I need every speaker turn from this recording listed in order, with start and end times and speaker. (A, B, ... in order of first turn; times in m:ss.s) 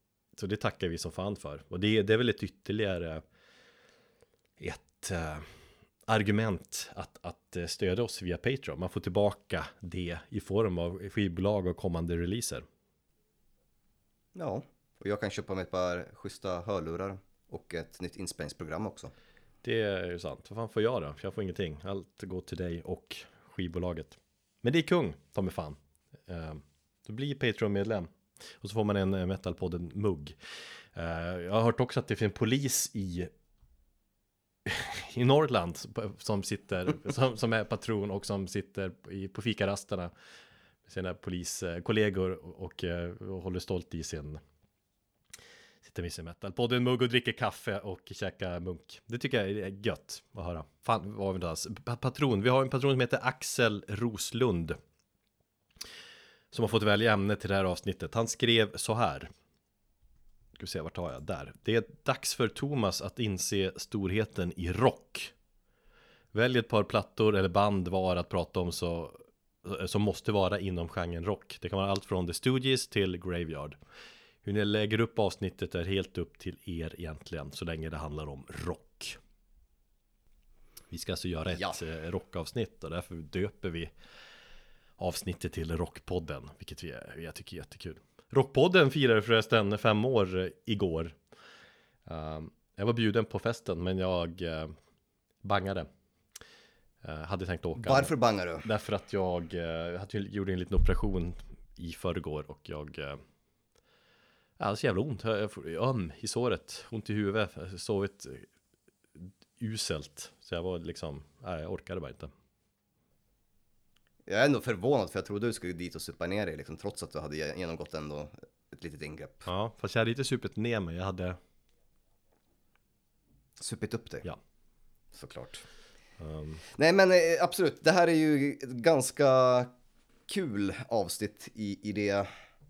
0:00.4-0:03.2 A
0:04.6-0:05.4 A
0:06.1-0:12.6 A
0:14.3-0:19.1 B
0:19.6-0:30.4 A
0:30.9-0:33.3 A
0:34.6-0:40.1 A
0:40.9-0:44.4 A
0:45.8-0:54.8 A
0:56.5-0:59.3 A
1:00.6-1:05.3 A
1:06.3-1:13.8 A
1:14.4-1:19.2 A
1:20.9-1:23.9 A
1:25.0-1:31.2 A
1:32.0-1:34.7 A
1:35.4-1:35.9 A
1:37.0-1:43.2 A
1:37.8-1:38.7 B
1:44.6-1:48.5 A
1:49.2-1:52.3 A
1:54.2-1:59.5 B
1:59.5-2:01.4 A
2:03.6-2:04.2 B
2:05.1-2:05.6 B
2:06.2-2:06.6 A
2:06.7-2:09.7 B
2:10.3-2:12.3 B